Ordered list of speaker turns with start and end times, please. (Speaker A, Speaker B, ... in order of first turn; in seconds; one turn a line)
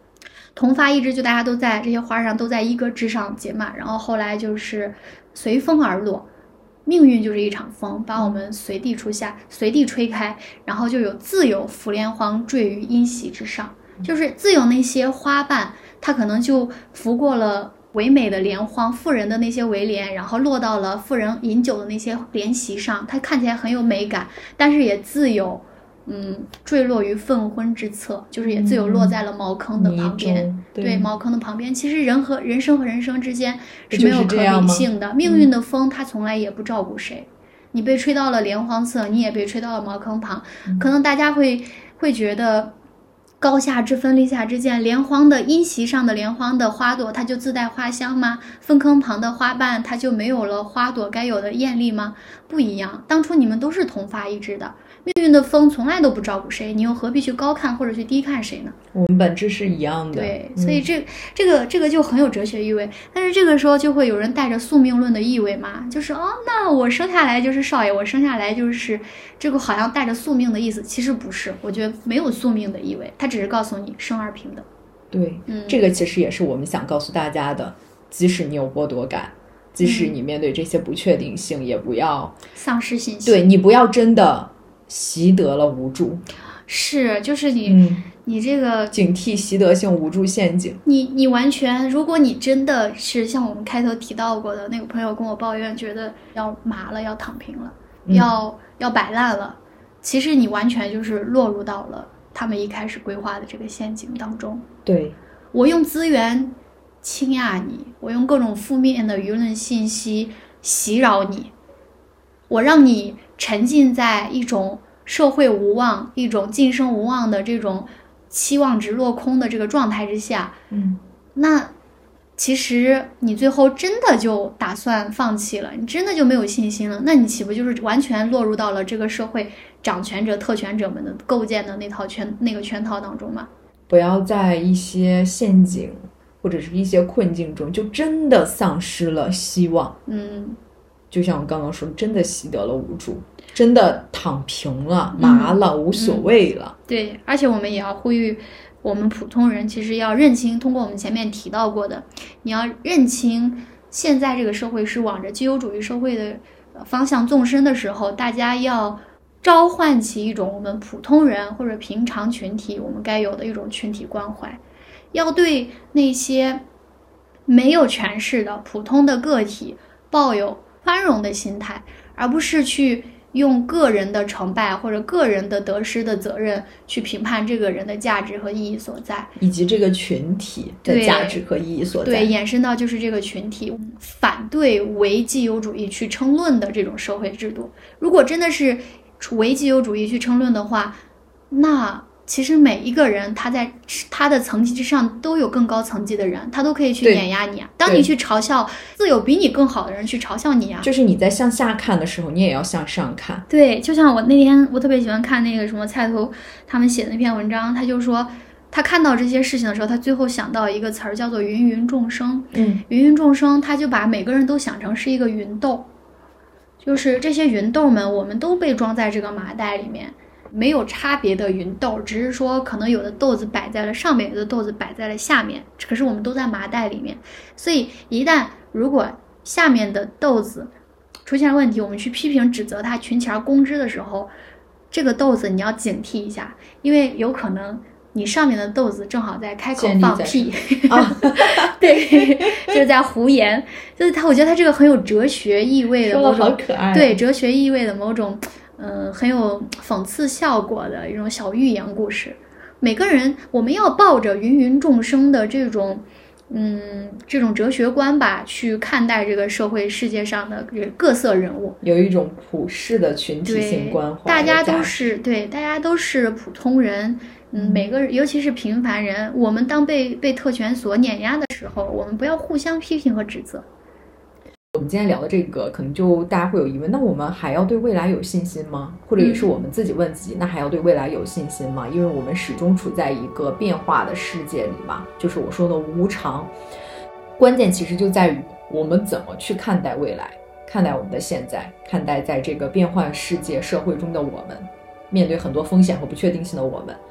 Speaker A: 0.5-6.3
Speaker A: 6.8-42.8
Speaker B: 8.2-8.4
Speaker B: 28.4-29.2
Speaker B: 29.8-31.1
Speaker B: 33.9-35.5
Speaker A: 43.4-58.8
Speaker B: 58.9-60.9
Speaker A: 60.1-74.7
Speaker B: 75.1-82.4
Speaker A: 75.5-75.8
Speaker A: 79.8-80.1
Speaker A: 82.5-83.5
Speaker B: 83.2-86.2
Speaker A: 86.7-89.0
Speaker B: 87.6-88.0
Speaker B: 88.9-90.8
Speaker A: 90.8-104.7
Speaker B: 98.0-98.3
Speaker B: 104.8-105.2
Speaker A: 105.5-111.5
Speaker A: 112.5-120.6
Speaker B: 120.7-121.0
Speaker A: 121.3-121.7
Speaker A: 122.4-133.5
Speaker B: 133.9-140.0
Speaker A: 140.1-140.6
Speaker B: 141.1-146.7
Speaker A: 145.1-146.3
Speaker A: 146.9-164.6
Speaker A: 165.1-166.6
Speaker A: 167.5-179.3
Speaker B: 179.4-182.3
Speaker A: 180.8-181.4
Speaker A: 182.0-200.9
Speaker B: 200.8-203.4
Speaker A: 203.5-215.9
Speaker B: 212.5-212.8
Speaker A: 216.8-230.7
Speaker A: 231.2-234.3
Speaker A: 234.9-261.8
Speaker B: 239.7-242.8
Speaker B: 246.0-247.2
Speaker B: 261.8-265.0
Speaker A: 263.4-273.6
Speaker B: 267.6-267.9
Speaker B: 274.7-286.5
Speaker A: 279.2-279.5
Speaker B: 287.4-297.0